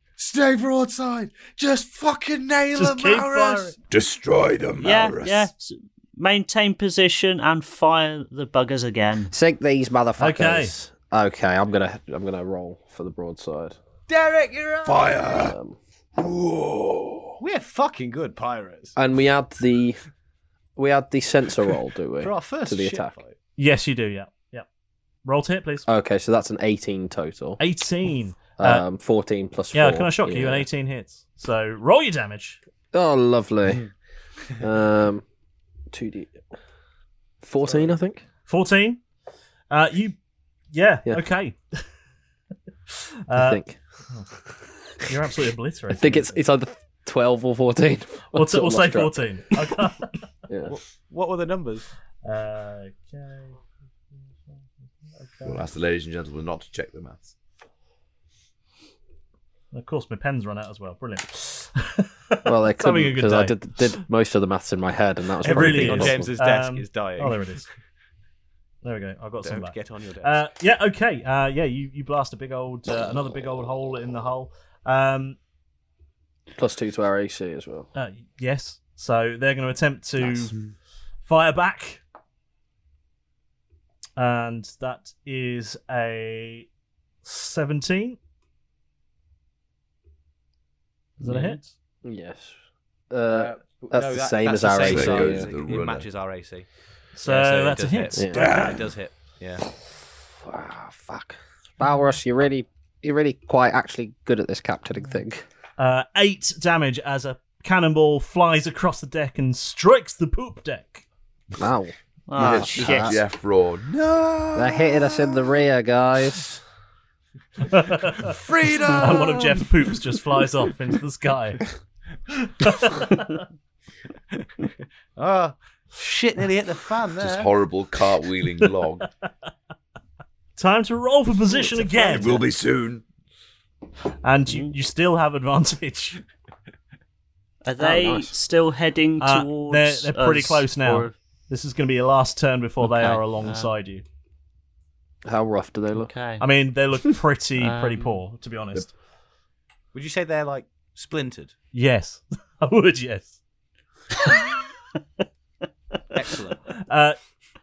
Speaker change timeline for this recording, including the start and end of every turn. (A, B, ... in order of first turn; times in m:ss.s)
0:00.2-0:03.7 A
0:02.7-0:03.7 B
0:03.9-0:05.5 C
0:04.8-0:09.3 D
0:09.3-0:13.8 E
0:10.2-0:10.7 B
0:14.1-0:15.3 A
0:14.8-0:15.5 C
0:15.4-0:15.8 E
0:16.2-0:17.4 C
0:17.4-0:19.0 A
0:19.0-0:20.0 E
0:20.8-0:23.1 E
0:22.2-0:23.4 A
0:23.6-0:24.6 B
0:25.2-0:25.8 B
0:25.8-0:27.6 E
0:27.6-0:28.8 B
0:28.6-0:30.7 E
0:29.7-0:32.6 B
0:32.9-0:33.8 E
0:34.6-0:35.2 E
0:35.9-0:36.4 E
0:37.4-0:38.2 E
0:38.4-0:39.0 B
0:39.7-0:40.2 B
0:40.7-0:41.8 B
0:42.9-0:44.2 B
0:43.3-0:43.8 E
0:45.0-0:46.4 B
0:45.9-0:49.6 E
0:48.3-0:50.1 B
0:50.5-0:50.8 E
0:50.7-0:51.8 A
0:52.2-0:53.6 B
0:55.2-0:55.6 B
0:55.4-0:57.3 C
0:59.7-1:03.6 B
1:02.4-1:06.3 E
1:05.4-1:07.6 B
1:05.4-1:07.6 A
1:08.8-1:15.4 B
1:09.4-1:10.5 A
1:16.5-1:17.9 E
1:17.9-1:20.5 B
1:21.2-1:22.0 B
1:24.2-1:26.7 B
1:27.2-1:28.2 B
1:31.2-1:31.7 B
1:32.0-1:32.6 E
1:33.1-1:35.5 E
1:33.3-1:36.6 A
1:34.7-1:36.0 C
1:37.2-1:38.4 B
1:37.2-1:39.6 A
1:38.2-1:38.5 E
1:38.3-1:38.8 C
1:40.4-1:45.4 E
1:45.8-1:51.0 B
1:51.6-1:53.2 E
1:52.3-1:53.2 D
1:52.4-1:55.4 C
1:54.5-1:56.6 E
1:57.7-1:58.3 B
1:58.2-2:00.0 A
1:59.0-2:01.6 B
2:02.6-2:03.3 B
2:04.3-2:04.6 A
2:05.2-2:07.5 A
2:07.2-2:09.0 C
2:10.6-2:12.4 B
2:12.0-2:13.0 C
2:14.2-2:16.2 B
2:14.5-2:14.7 D
2:17.6-2:21.1 D
2:17.8-2:18.3 E
2:19.2-2:24.0 B
2:22.8-2:23.7 D
2:25.2-2:26.1 E
2:25.9-2:26.4 D
2:26.4-2:28.9 B
2:27.6-2:28.2 D
2:29.9-2:31.5 A
2:31.7-2:33.4 B
2:34.2-2:34.5 B
2:36.1-2:36.6 A
2:36.9-2:37.2 B